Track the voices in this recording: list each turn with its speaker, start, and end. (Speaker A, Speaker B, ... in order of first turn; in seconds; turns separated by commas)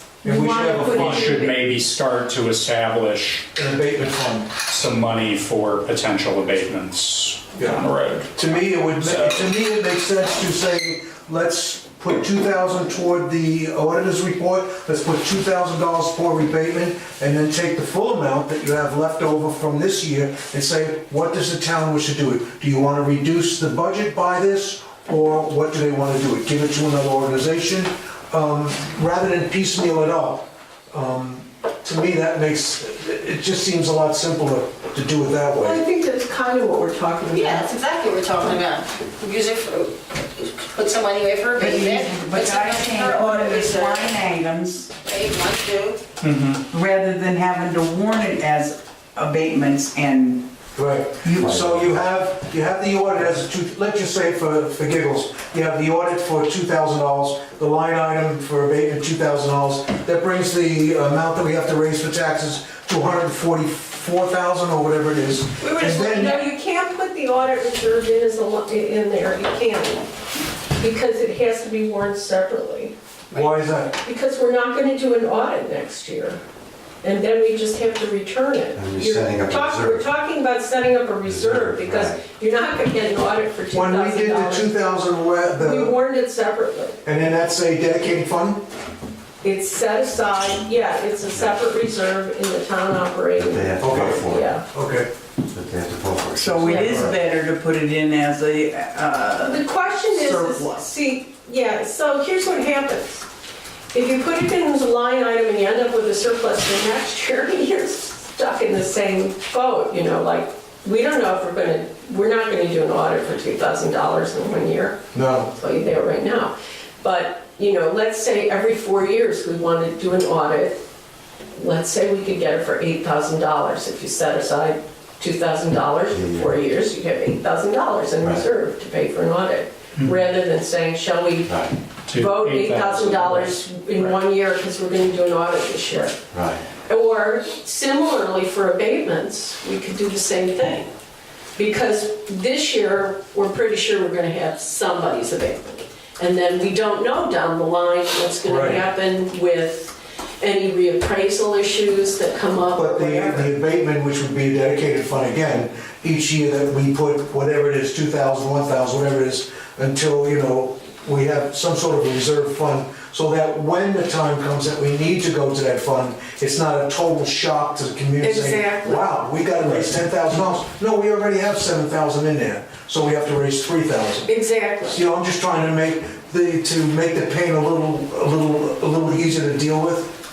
Speaker A: 0.2-1.3, Speaker B: 0.2-1.6, Speaker C: 0.4-3.5, Speaker A: 3.5-4.5, Speaker C: 4.7-9.4, Speaker A: 7.6-35.8, Speaker B: 35.6-37.8, Speaker D: 37.3-44.2, Speaker E: 41.5-44.9, Speaker D: 45.0-46.0, Speaker C: 46.2-46.6, Speaker E: 46.7-50.4, Speaker A: 50.8-66.5, Speaker E: 51.2-51.6, Speaker F: 51.4-51.8, Speaker B: 65.6-70.1, Speaker B: 70.8-72.9, Speaker A: 73.3-74.0, Speaker B: 73.9-76.4, Speaker B: 77.0-84.9, Speaker F: 78.8-80.1, Speaker F: 81.2-82.2, Speaker A: 83.7-85.9, Speaker B: 85.5-87.0, Speaker A: 87.0-88.6, Speaker B: 89.4-94.7, Speaker F: 93.3-94.5, Speaker A: 93.8-95.1, Speaker F: 95.5-97.2, Speaker E: 96.3-100.9, Speaker B: 96.6-97.1, Speaker B: 99.4-103.2, Speaker B: 103.9-115.0, Speaker A: 115.1-115.5, Speaker B: 115.5-120.9, Speaker B: 121.5-136.2, Speaker F: 126.1-126.5, Speaker F: 131.5-131.7, Speaker C: 132.1-134.0, Speaker F: 136.3-136.6, Speaker B: 136.8-140.9, Speaker B: 141.6-153.5, Speaker A: 148.4-148.8, Speaker A: 152.8-174.3, Speaker B: 168.2-169.2, Speaker B: 174.2-175.0, Speaker A: 174.8-180.2